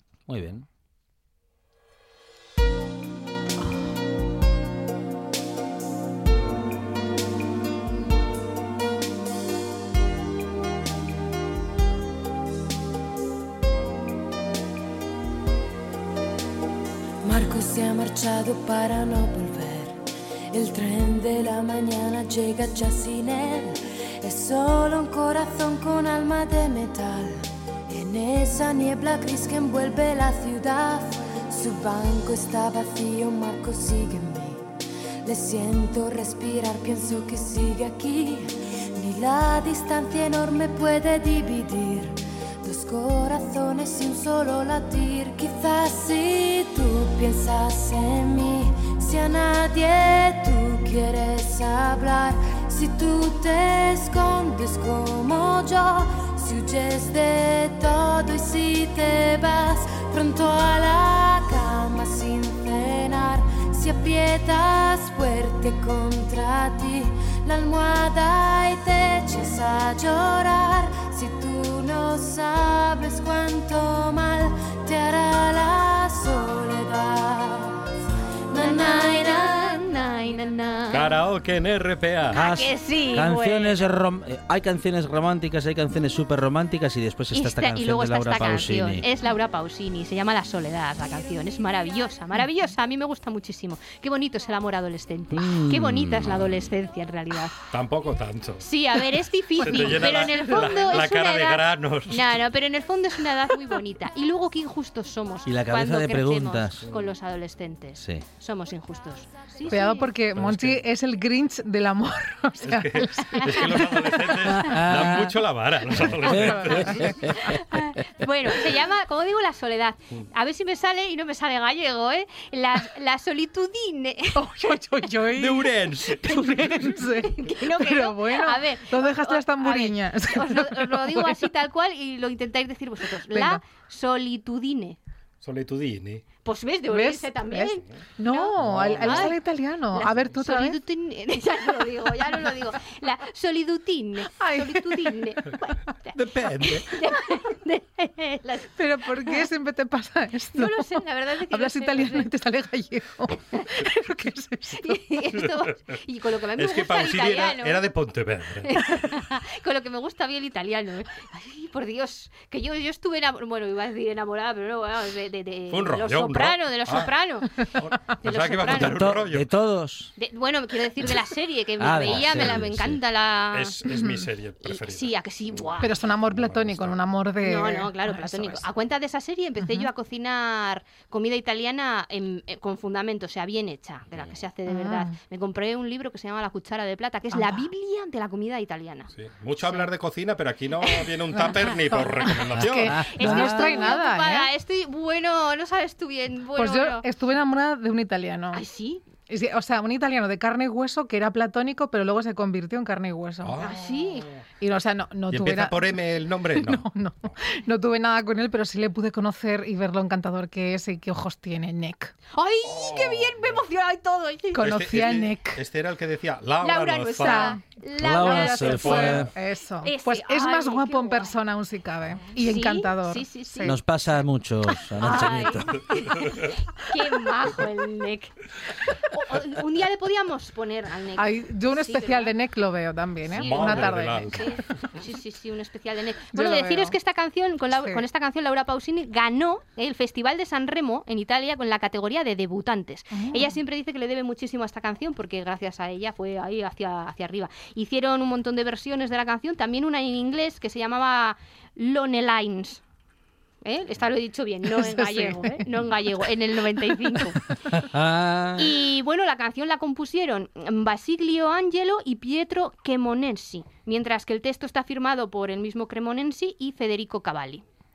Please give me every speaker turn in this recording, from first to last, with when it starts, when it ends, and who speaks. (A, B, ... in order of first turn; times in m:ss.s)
0:00.3-0:00.7 A
0:17.2-0:34.6 B
0:35.2-1:17.8 B
1:18.5-1:19.9 B
1:18.6-1:21.2 C
1:20.9-1:22.4 D
1:22.3-1:23.8 C
1:22.3-1:29.1 A
1:27.3-1:37.6 C
1:35.3-1:36.7 A
1:37.7-1:38.6 D
1:38.6-1:50.1 C
1:39.6-1:42.4 D
1:39.6-1:40.9 E
1:45.5-1:46.9 A
1:48.0-1:48.2 A
1:49.7-1:54.1 E
1:50.4-1:50.8 D
1:52.6-1:57.3 D
1:53.3-1:54.6 C
1:54.6-1:55.4 A
1:56.2-1:57.8 A
1:56.3-1:57.4 E
1:57.4-2:04.8 C
2:04.4-2:11.5 E
2:05.3-2:06.8 D
2:07.0-2:15.0 C
2:13.2-2:13.6 E
2:15.4-2:16.2 D
2:16.4-2:29.5 C
2:16.9-2:20.8 E
2:18.6-2:19.4 D
2:24.4-2:25.3 E
2:26.1-2:27.0 D
2:28.8-2:35.0 E
2:30.5-2:32.3 C
2:34.8-2:37.8 C
2:36.6-2:38.7 D
2:38.6-2:47.7 C
2:45.7-2:47.1 D
2:47.8-2:49.5 D
2:48.2-2:49.1 C
2:48.7-2:50.1 A
2:50.2-2:53.8 C
2:51.8-2:53.0 A
2:52.0-2:52.6 D
2:53.5-2:57.0 D
2:53.9-2:54.2 E
2:54.6-2:55.9 C
2:55.8-2:58.6 E
2:57.4-3:09.1 C
2:59.6-2:59.9 E
3:04.7-3:05.2 E
3:07.3-3:07.7 E
3:09.1-3:13.1 D
3:11.3-3:14.5 E
3:13.0-3:13.7 A
3:13.1-3:17.0 C
3:16.6-3:18.6 E
3:18.5-3:19.0 C
3:19.3-3:23.8 E
3:23.4-3:23.7 D
3:23.6-3:24.3 C
3:24.6-3:26.0 E
3:25.3-3:26.9 D
3:26.5-3:32.1 E
3:32.3-3:34.6 C
3:32.6-3:33.6 D
3:34.5-3:35.6 E
3:34.6-3:37.6 D
3:36.6-3:39.3 C
3:37.2-3:43.8 E
3:38.0-3:39.3 A
3:39.8-3:41.4 C
3:42.4-3:43.8 C
3:43.6-3:45.9 A
3:45.0-3:48.4 C
3:48.9-3:52.3 C
3:51.2-3:54.5 E
3:53.3-3:54.6 D
3:53.3-4:12.8 C
3:56.3-3:57.0 E
3:57.7-3:58.0 E
4:03.1-4:03.6 E
4:13.6-4:17.4 C
4:14.7-4:15.7 E
4:17.7-4:18.7 A
4:18.6-4:27.6 C